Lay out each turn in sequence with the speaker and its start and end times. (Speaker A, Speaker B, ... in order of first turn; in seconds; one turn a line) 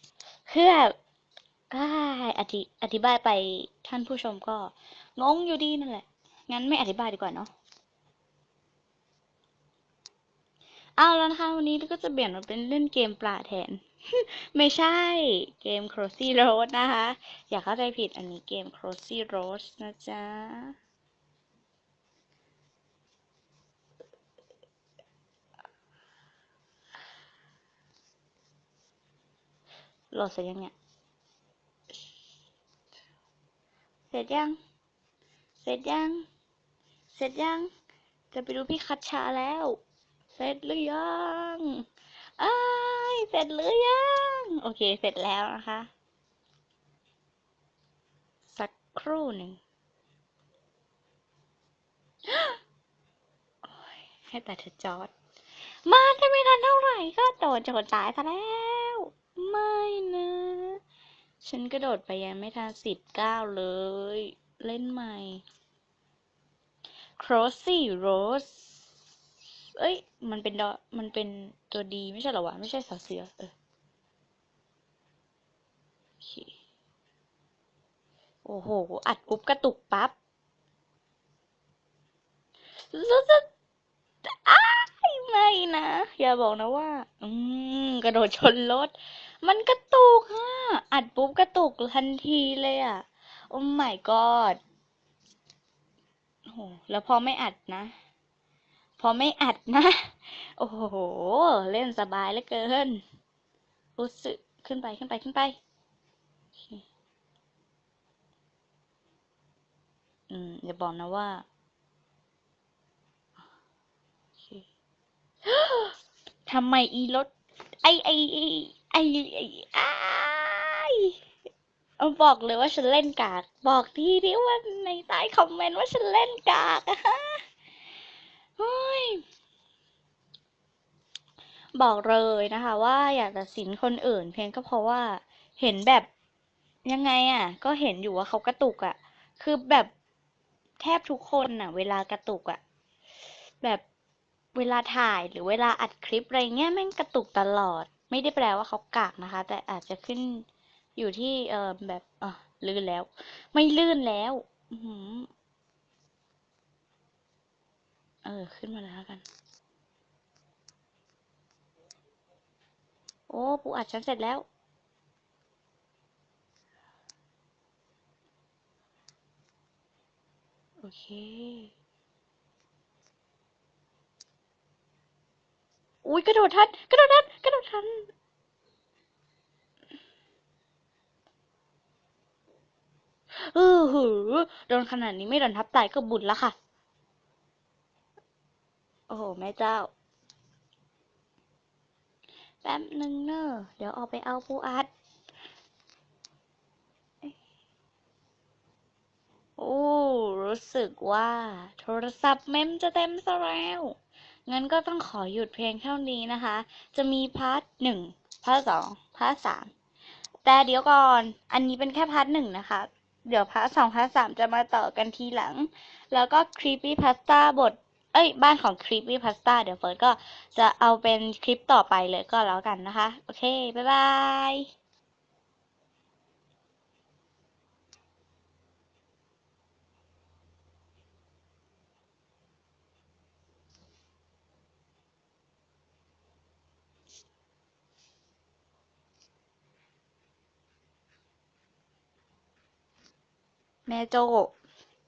Speaker A: 0.5-0.9
Speaker A: 1.7-7.5
Speaker A: 11.0-20.7
Speaker A: 30.1-30.7
Speaker A: 34.1-34.5
Speaker A: 35.6-36.2
Speaker A: 37.1-37.7
Speaker A: 38.3-39.8
Speaker A: 40.3-41.8
Speaker A: 42.4-45.9
Speaker A: 48.5-49.6
Speaker A: 52.3-52.6
Speaker A: 53.6-55.1
Speaker A: 55.9-60.8
Speaker A: 61.4-65.4
Speaker A: 67.2-68.8
Speaker A: 69.8-73.5
Speaker A: 76.2-76.5
Speaker A: 78.4-80.1
Speaker A: 82.8-83.5
Speaker A: 84.2-94.6
Speaker A: 96.5-97.9
Speaker A: 99.0-103.0
Speaker A: 104.0-105.6
Speaker A: 106.6-106.8
Speaker A: 110.3-111.4
Speaker A: 114.4-114.7
Speaker A: 115.5-115.9
Speaker A: 116.5-117.3
Speaker A: 117.8-121.1
Speaker A: 122.0-127.4
Speaker A: 128.6-129.2
Speaker A: 131.8-136.1
Speaker A: 136.8-139.9
Speaker A: 140.8-142.6
Speaker A: 144.5-150.4
Speaker A: 150.9-155.3
Speaker A: 158.2-159.2
Speaker A: 163.3-164.4
Speaker A: 170.8-171.7
Speaker A: 176.0-178.1
Speaker A: 183.3-186.5
Speaker A: 189.1-189.9
Speaker A: 192.6-194.9
Speaker A: 199.6-203.9
Speaker A: 204.4-209.7
Speaker A: 210.4-224.7
Speaker A: 243.9-244.5